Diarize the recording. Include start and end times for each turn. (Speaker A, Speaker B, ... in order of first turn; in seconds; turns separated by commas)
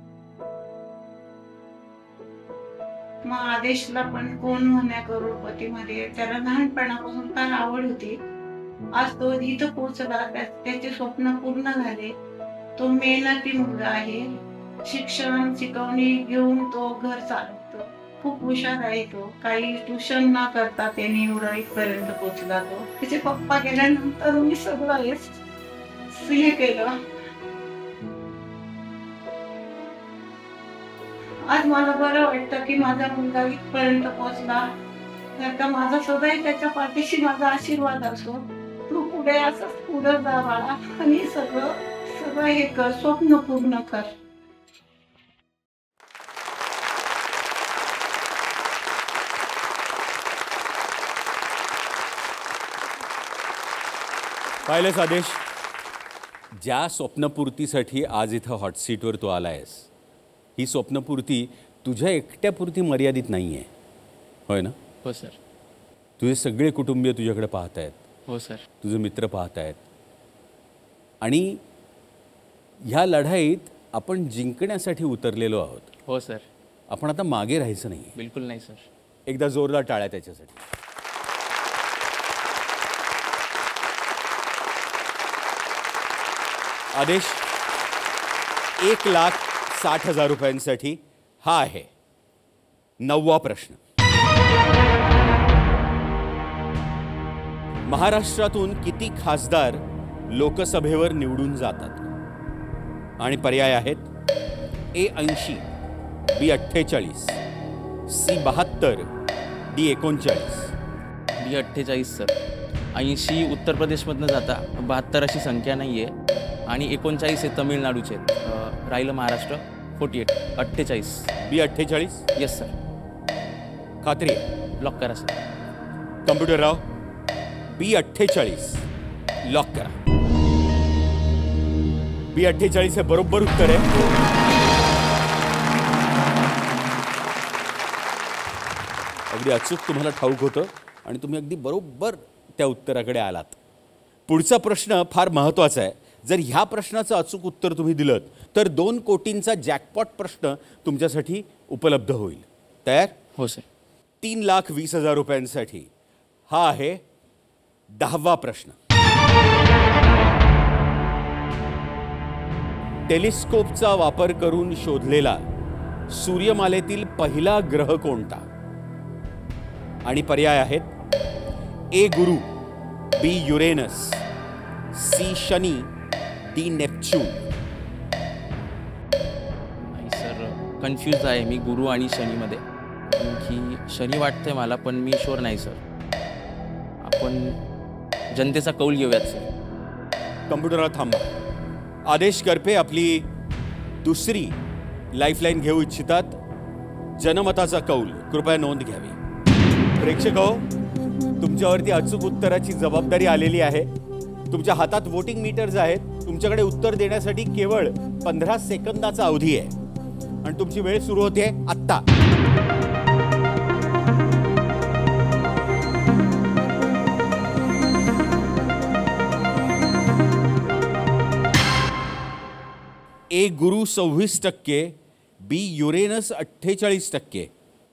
Speaker A: 3.2-8.2, Speaker A: 8.9-12.1, Speaker A: 12.8-14.3, Speaker A: 14.8-25.3, Speaker A: 26.1-26.9, Speaker A: 31.5-34.7, Speaker A: 35.4-44.1, Speaker B: 54.6-55.4, Speaker B: 56.5-59.9, Speaker B: 60.6-63.7, Speaker B: 64.5-64.8, Speaker C: 65.0-65.4, Speaker B: 66.2-68.0, Speaker C: 68.3-68.7, Speaker B: 68.8-69.8, Speaker B: 71.2-71.6, Speaker B: 72.9-75.9, Speaker C: 76.1-76.5, Speaker B: 76.9-78.1, Speaker C: 78.1-78.8, Speaker B: 79.3-80.6, Speaker B: 86.9-87.5, Speaker B: 88.8-91.9, Speaker B: 93.0-93.8, Speaker B: 97.9-102.1, Speaker B: 103.2-104.1, Speaker B: 104.9-105.7, Speaker B: 106.3-107.4, Speaker B: 108.1-109.1, Speaker B: 109.7-110.7, Speaker C: 111.4-112.3, Speaker C: 112.9-116.1, Speaker C: 116.7-121.3, Speaker B: 121.4-122.2, Speaker C: 122.3-122.7, Speaker B: 124.0-124.5, Speaker C: 124.8-125.4, Speaker B: 126.2-126.8, Speaker B: 127.7-128.8, Speaker B: 129.4-129.9, Speaker B: 132.3-134.0, Speaker B: 139.3-143.6, Speaker B: 144.3-153.1, Speaker C: 153.4-153.7, Speaker B: 154.2-155.9, Speaker B: 156.5-157.0, Speaker B: 157.9-158.8, Speaker B: 163.1-165.4, Speaker B: 166.1-168.4, Speaker B: 170.0-170.9, Speaker B: 171.9-172.5, Speaker B: 173.2-174.2, Speaker B: 174.9-175.9, Speaker B: 176.5-177.5, Speaker C: 179.8-185.8, Speaker C: 187.0-187.6, Speaker C: 188.3-189.5, Speaker B: 190.5-191.3, Speaker B: 192.0-193.3, Speaker B: 194.0-194.6, Speaker B: 195.1-196.4, Speaker B: 197.2-199.2, Speaker B: 200.0-200.7, Speaker B: 201.4-203.9, Speaker B: 204.5-209.7, Speaker B: 210.4-212.0, Speaker B: 223.3-227.5